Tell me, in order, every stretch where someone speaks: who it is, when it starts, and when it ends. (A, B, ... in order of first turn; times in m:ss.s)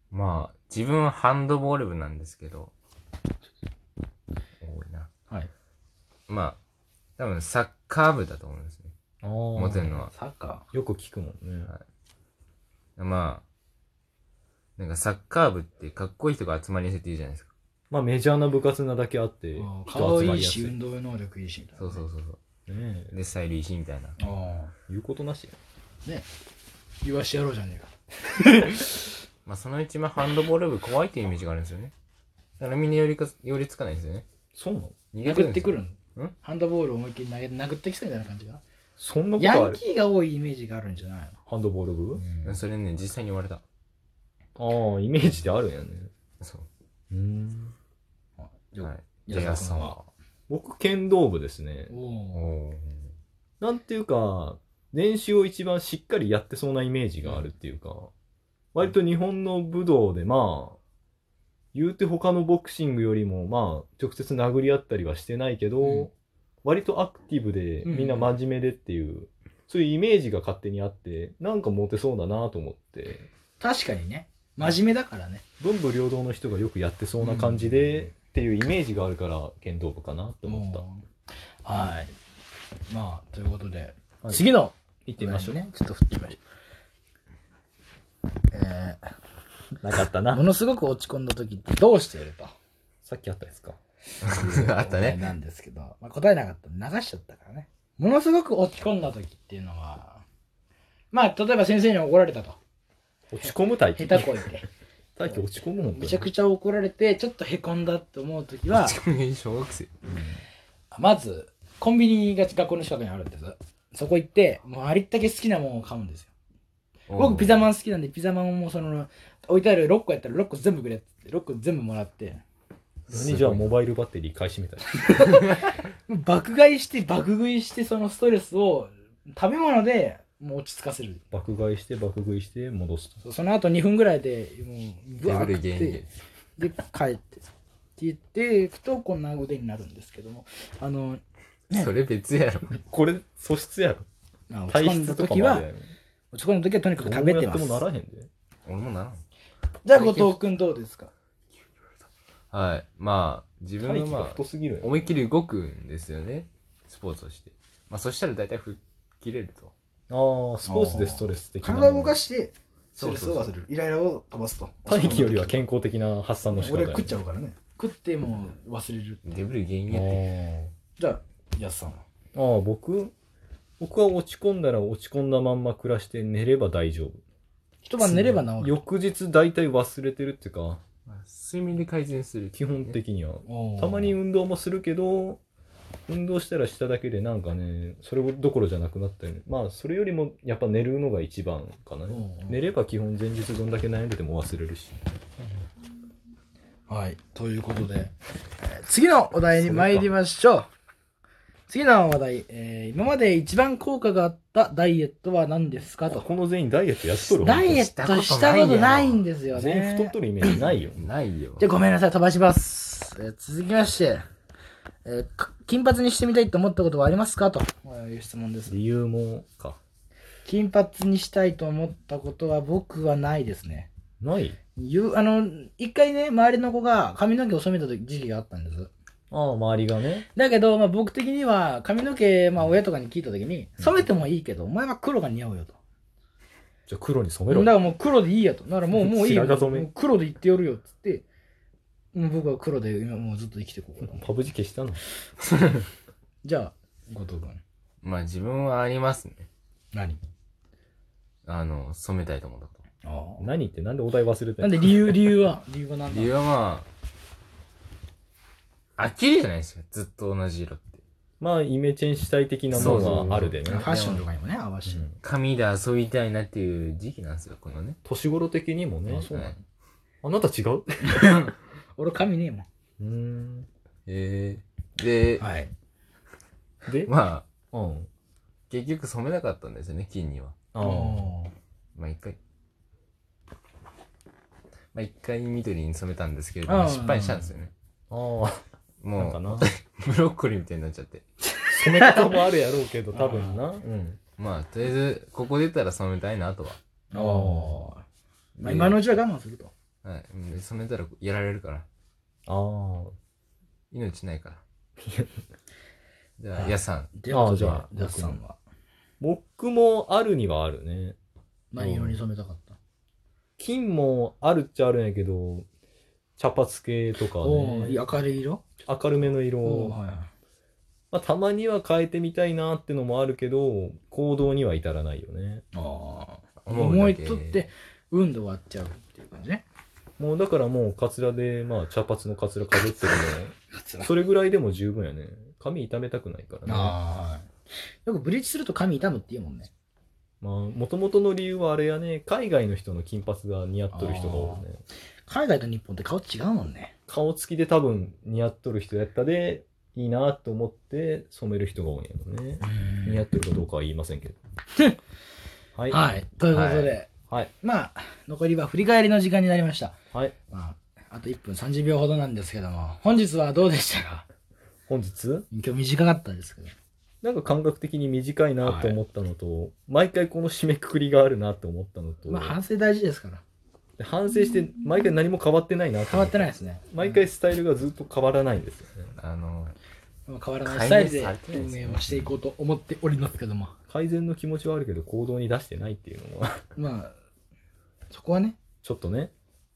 0:00.1-0:02.7 A
0:04.6-0:05.1 A
0:06.3-0:06.6 A
0:07.2-0:08.9 A
0:09.2-0:10.0 B
0:09.6-0:10.1 A
0:10.1-0:10.6 C
0:10.7-0:11.7 B
0:13.0-0:13.4 A
0:14.8-0:17.5 A
0:17.9-0:20.7 B
0:19.6-0:22.0 C
0:21.8-0:22.4 A
0:22.7-0:23.1 B
0:23.1-0:24.2 A
0:24.2-0:24.7 C
0:24.9-0:25.6 B
0:27.0-0:29.1 C
0:29.4-0:31.9 A
0:32.6-0:34.2 A
0:34.5-0:35.0 B
0:35.1-0:36.3 A
0:35.2-0:38.6 C
0:39.0-0:39.8 B
0:39.4-0:41.4 C
0:41.5-0:42.2 B
0:42.2-0:42.6 C
0:42.4-0:43.6 A
0:44.6-0:46.1 B
0:46.4-0:46.7 A
0:47.1-0:47.7 B
0:48.4-0:50.0 C
0:48.8-0:50.0 A
0:50.5-0:51.9 B
0:51.9-0:52.5 C
0:52.3-0:53.1 A
0:53.6-0:58.1 B
0:58.7-1:00.8 B
1:01.7-1:06.1 B
1:05.8-1:06.1 C
1:06.6-1:13.3 B
1:07.8-1:08.3 C
1:13.6-1:15.4 C
1:15.6-1:20.8 B
1:17.2-1:18.1 C
1:20.4-1:21.0 C
1:21.6-1:22.1 C
1:22.9-1:26.4 C
1:25.0-1:25.6 B
1:28.5-1:29.1 C
1:29.8-1:30.4 B
1:30.3-1:32.5 C
1:33.0-1:33.8 B
1:34.2-1:40.2 C
1:34.2-1:35.2 A
1:41.1-1:42.6 C
1:43.3-1:44.5 B
1:43.4-1:44.7 C
1:45.2-1:46.3 B
1:45.2-1:49.0 C
1:48.7-1:49.9 A
1:50.1-1:50.4 B
1:50.9-1:56.3 C
1:57.1-1:57.6 A
1:57.2-2:02.4 C
2:03.1-2:03.7 A
2:03.1-2:05.3 B
2:05.1-2:11.2 C
2:11.3-2:13.2 B
2:13.2-2:16.0 C
2:15.2-2:16.1 A
2:16.6-2:17.4 C
2:18.0-2:21.9 C
2:21.7-2:22.8 A
2:22.7-2:24.1 B
2:24.5-2:25.7 C
2:24.7-2:25.9 B
2:26.3-2:27.8 C
2:27.0-2:28.3 B
2:28.6-2:29.2 A
2:29.8-2:31.1 C
2:29.9-2:30.4 A
2:32.5-2:39.7 A
2:33.8-2:34.9 B
2:40.1-2:42.2 B
2:40.6-2:45.6 C
2:43.0-2:43.4 B
2:44.9-2:47.1 B
2:46.5-2:49.2 C
2:49.2-2:50.2 A
2:49.9-2:50.7 B
2:51.0-2:52.0 C
2:52.3-2:53.1 B
2:53.8-2:57.2 B
2:57.8-2:58.8 C
2:58.0-3:00.8 B
3:01.1-3:03.0 A
3:02.6-3:05.4 B
3:03.5-3:04.2 C
3:06.1-3:15.0 B
3:12.1-3:12.6 C
3:16.9-3:20.7 C
3:19.5-3:20.1 B
3:21.7-3:26.2 C
3:26.1-3:27.8 B
3:27.2-3:30.7 C
3:27.7-3:29.2 A
3:29.5-3:31.0 B
3:31.0-3:31.7 A
3:31.6-3:34.2 C
3:35.0-3:38.8 C
3:38.7-3:39.8 B
3:40.4-3:43.9 C
3:44.2-3:44.6 B
3:44.8-3:48.9 C
3:49.3-3:50.3 B
3:50.3-3:55.8 C
3:53.8-3:54.1 B
3:56.9-3:57.7 B
3:57.5-4:01.2 C
3:58.9-3:59.9 B
4:02.1-4:04.3 C
4:04.0-4:05.0 B
4:06.4-4:07.6 C
4:08.0-4:09.5 A
4:09.9-4:10.2 C
4:11.4-4:12.8 A
4:13.0-4:13.4 C
4:13.4-4:15.3 B
4:14.6-4:16.4 C
4:16.1-4:16.9 A
4:19.0-4:21.0 A
4:21.4-4:23.9 B
4:22.7-4:24.2 A
4:22.8-4:25.1 C
4:25.2-4:28.0 A
4:28.0-4:29.6 B
4:29.1-4:29.5 A
4:30.2-4:31.4 B
4:31.1-4:32.6 C
4:33.0-4:33.7 B
4:34.1-4:35.4 A
4:35.4-4:35.7 C
4:36.9-4:37.1 B
4:37.0-4:37.5 A
4:37.7-4:38.1 B
4:38.7-4:40.6 A
4:40.7-4:41.3 B
4:40.8-4:41.5 C
4:41.9-4:42.4 A
4:44.9-4:47.7 A
4:46.6-4:47.5 C
4:48.1-4:48.6 B
4:49.0-4:51.2 A
4:49.2-4:49.7 B
4:51.6-4:52.3 C
4:51.7-4:54.2 B
4:53.1-4:53.6 C
4:54.4-4:56.8 A
4:57.1-4:58.0 C
4:57.1-4:57.9 B
4:58.6-4:59.0 A
4:58.6-4:59.7 C
5:00.0-5:01.8 A
5:02.5-5:03.1 B
5:03.9-5:04.6 A
5:05.0-5:05.4 B
5:06.4-5:07.8 A
5:06.6-5:08.6 C
5:07.3-5:08.4 B
5:09.2-5:11.2 B
5:11.7-5:12.8 C
5:11.8-5:12.2 B
5:13.6-5:15.7 B
5:16.4-5:18.0 B
5:17.4-5:18.6 C
5:18.8-5:20.0 B
5:19.6-5:20.3 C
5:21.1-5:25.6 B
5:25.7-5:29.6 C
5:26.6-5:27.6 A
5:30.2-5:37.0 B
5:33.7-5:34.1 C
5:36.6-5:37.5 C
5:38.0-5:39.7 C
5:40.4-5:44.8 B
5:43.9-5:44.6 C
5:45.2-5:46.9 C
5:47.1-5:54.4 B
5:52.6-5:53.2 C
5:55.8-5:56.0 B
5:55.9-6:00.0 C
5:56.5-5:56.9 A
6:00.5-6:04.2 C
6:04.9-6:05.5 B
6:05.5-6:06.7 C
6:07.2-6:12.6 B
6:08.6-6:09.0 C
6:12.2-6:13.4 C
6:14.0-6:19.1 B
6:16.0-6:17.2 C
6:19.2-6:19.8 A
6:20.3-6:23.7 C
6:20.6-6:22.3 A
6:23.9-6:26.6 B
6:26.8-6:27.2 C
6:28.1-6:28.6 C
6:28.8-6:29.3 B